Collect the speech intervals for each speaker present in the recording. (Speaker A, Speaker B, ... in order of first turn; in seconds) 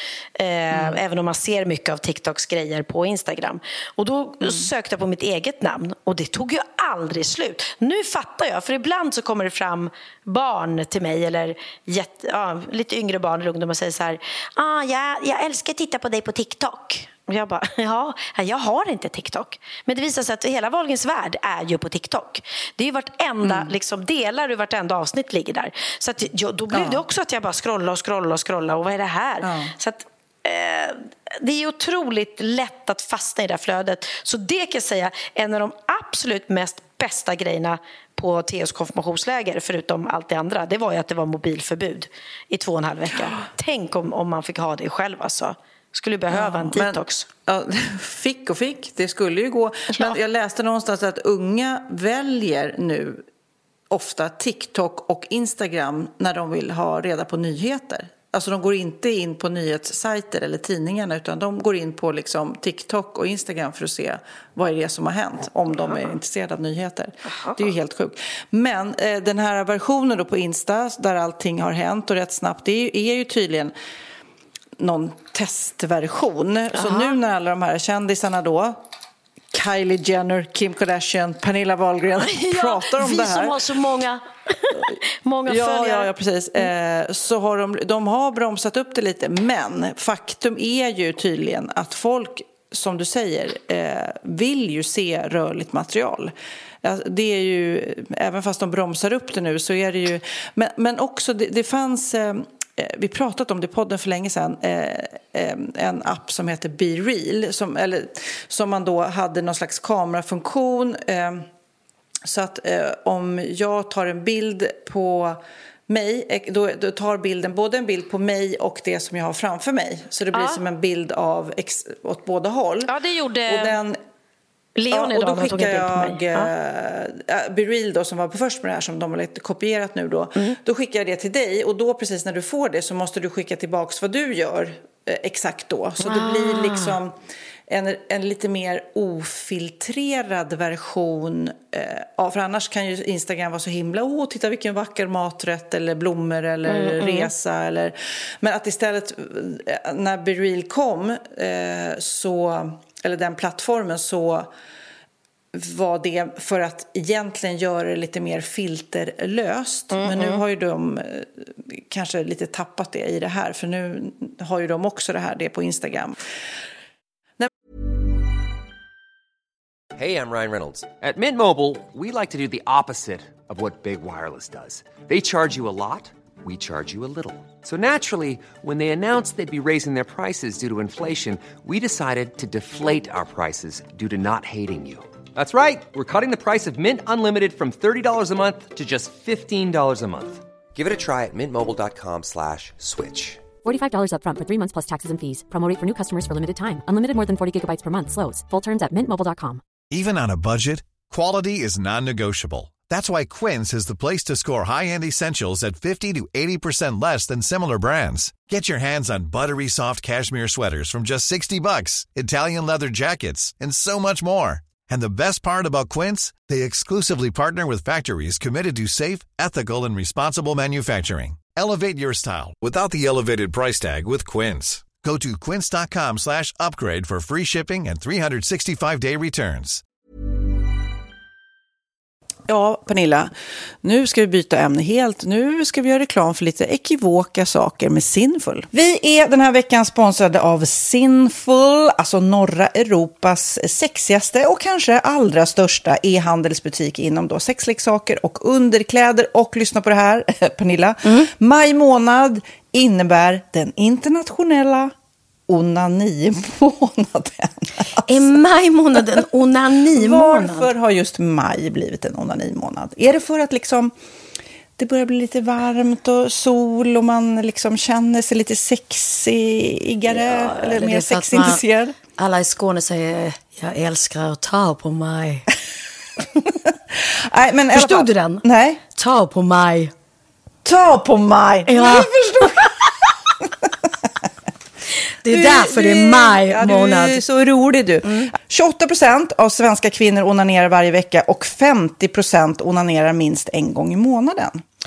Speaker A: 0.4-47.3, 67.3-67.6, 76.8-77.1, 82.2-86.1, 120.3-120.6, 122.9-123.8, 124.8-126.5, 136.0-137.0, 146.7-147.3, 159.9-160.4, 258.1-260.7, 270.1-271.6, 272.2-275.5, 277.7-278.4, 278.9-279.9, 281.7-282.6, 285.2-287.2
Speaker B: 0.7-1.0, 4.4-4.7, 23.4-23.7, 26.7-27.1, 29.4-29.7, 46.3-53.2, 53.9-73.7, 74.8-78.8, 79.5-83.6, 84.7-111.5, 112.2-122.9, 123.5-124.0, 124.9-137.2, 137.7-154.5, 155.5-166.2, 232.5-233.3, 233.8-254.9, 255.5-258.3, 259.9-263.9, 264.8-272.0, 276.9-278.8, 280.6-282.9, 285.3-294.6
Speaker C: 169.9-193.4
Speaker D: 193.6-199.6
Speaker E: 199.9-229.8